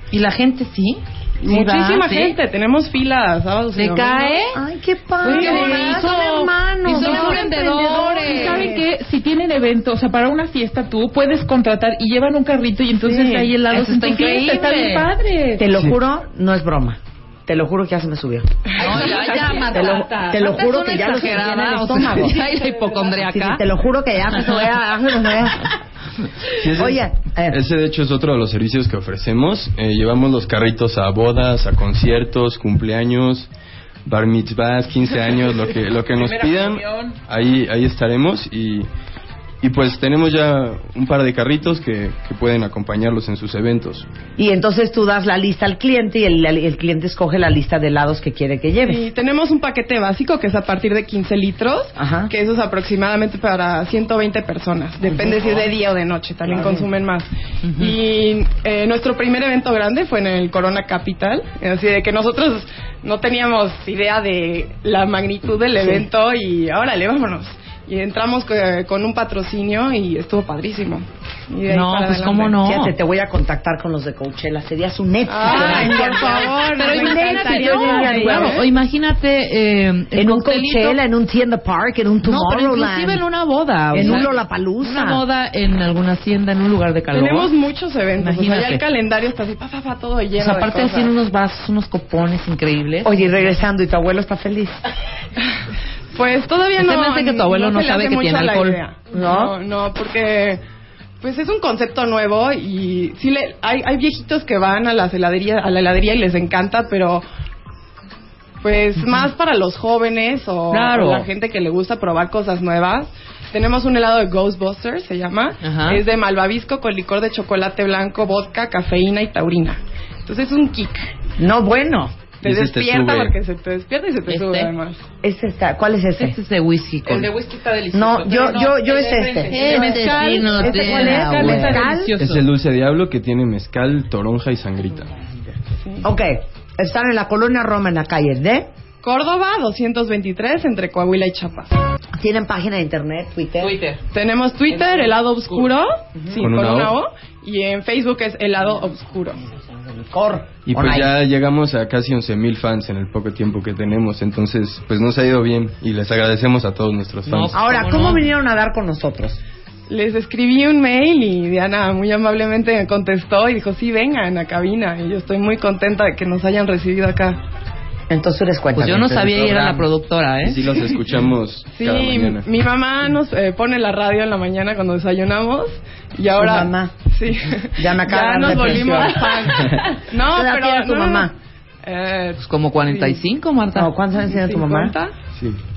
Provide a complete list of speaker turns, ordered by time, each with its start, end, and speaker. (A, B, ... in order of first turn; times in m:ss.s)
0:00.1-0:02.4 A
0:01.4-0:04.5 B
0:03.8-0:04.6 A
0:04.5-0:08.9 C
0:05.2-0:08.7 A
0:05.2-0:05.8 B
0:06.8-0:15.7 D
0:13.0-0:13.5 B
0:13.6-0:15.1 A
0:15.6-0:19.1 C
0:18.8-0:23.6 A
0:18.9-0:20.4 D
0:19.7-0:22.4 C
0:23.1-0:25.7 C
0:26.6-0:33.5 E
0:26.7-0:27.6 C
0:34.0-0:38.9 E
0:36.1-0:37.2 D
0:39.6-0:44.1 E
0:44.4-0:49.0 C
0:48.8-1:12.6 B
0:52.0-0:52.3 C
1:11.7-1:13.0 A
1:12.6-1:18.6 C
1:15.3-1:18.7 B
1:15.4-1:21.0 A
1:20.2-1:23.2 C
1:22.2-1:24.3 A
1:23.9-1:25.2 C
1:24.0-1:24.3 B
1:24.8-1:27.5 A
1:27.1-1:31.1 B
1:28.2-1:28.8 A
1:30.4-1:33.5 A
1:33.0-1:34.8 C
1:36.1-1:40.6 B
1:36.8-1:38.8 A
1:39.1-1:39.5 C
1:41.2-1:47.2 B
1:48.6-2:01.1 B
1:50.7-1:51.3 A
1:55.6-1:56.0 A
2:01.4-2:02.1 C
2:02.4-2:05.0 B
2:02.4-2:03.3 E
2:04.3-2:04.7 A
2:05.2-2:06.4 C
2:06.2-2:07.3 A
2:07.0-2:12.5 D
2:07.9-2:12.1 C
2:09.5-2:11.6 A
2:12.2-2:15.1 E
2:15.8-2:16.1 B
2:16.0-2:18.7 C
2:19.0-2:21.7 B
2:22.2-2:23.8 C
2:23.6-2:24.0 D
2:24.1-2:29.4 B
2:26.4-2:27.0 E
2:30.1-2:31.2 C
2:30.7-2:37.6 E
2:37.3-2:38.2 A
2:37.5-2:39.4 C
2:39.9-2:47.4 B
2:48.1-2:49.2 C
2:48.8-2:50.6 A
2:49.1-2:49.9 E
2:50.4-2:52.5 E
2:51.7-3:01.3 B
2:56.4-2:56.9 C
2:57.8-3:01.3 C
3:01.8-3:03.2 B
3:02.4-3:03.9 A
3:03.7-3:05.0 C
3:04.3-3:05.1 B